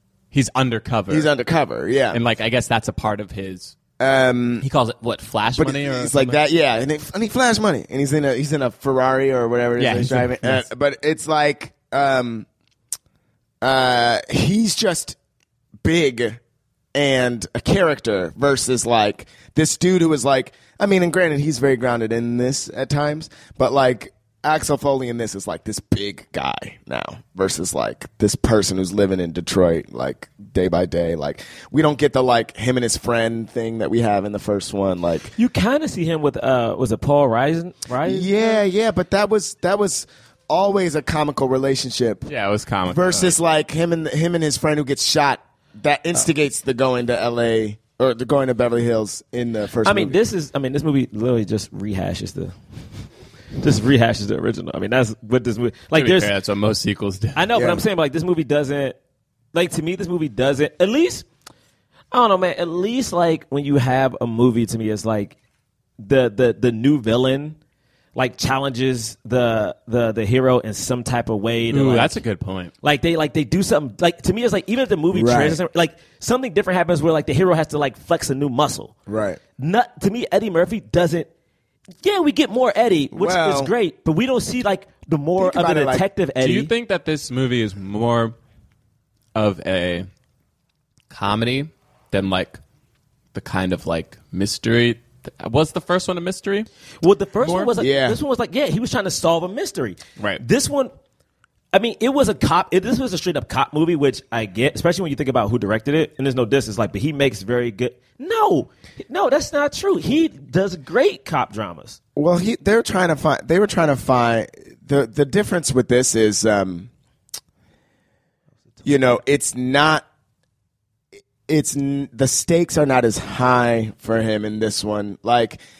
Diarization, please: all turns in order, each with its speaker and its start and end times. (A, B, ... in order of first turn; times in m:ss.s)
0:00.3-0:01.3 A
0:01.1-0:02.2 B
0:02.1-0:03.7 A
0:04.0-0:04.6 B
0:04.6-0:06.4 A
0:05.6-0:12.4 B
0:09.8-0:10.6 A
0:13.6-0:15.2 B
0:15.8-0:16.4 B
0:16.9-0:35.3 B
0:35.4-0:38.5 C
0:38.0-0:42.3 B
0:42.3-0:43.3 A
0:42.8-0:50.2 B
0:49.8-0:52.5 C
0:53.6-0:56.3 C
0:55.9-0:57.4 A
0:57.3-0:59.0 C
0:57.5-0:57.8 B
0:59.5-1:01.2 C
1:02.1-1:05.4 C
1:06.0-1:07.6 C
1:08.1-1:12.2 C
1:11.7-1:12.7 A
1:12.8-1:18.9 C
1:15.1-1:15.6 B
1:19.1-1:19.4 B
1:19.6-1:21.3 C
1:22.0-1:26.7 C
1:23.1-1:23.7 B
1:25.4-1:26.0 B
1:26.4-1:28.3 A
1:29.3-1:30.1 A
1:31.1-1:32.6 A
1:33.3-1:36.7 A
1:37.0-1:40.9 C
1:37.4-1:37.7 A
1:37.8-1:38.2 B
1:41.7-1:52.0 C
1:52.2-1:56.9 B
1:58.8-1:59.2 C
1:58.8-2:00.0 B
2:01.5-2:05.6 B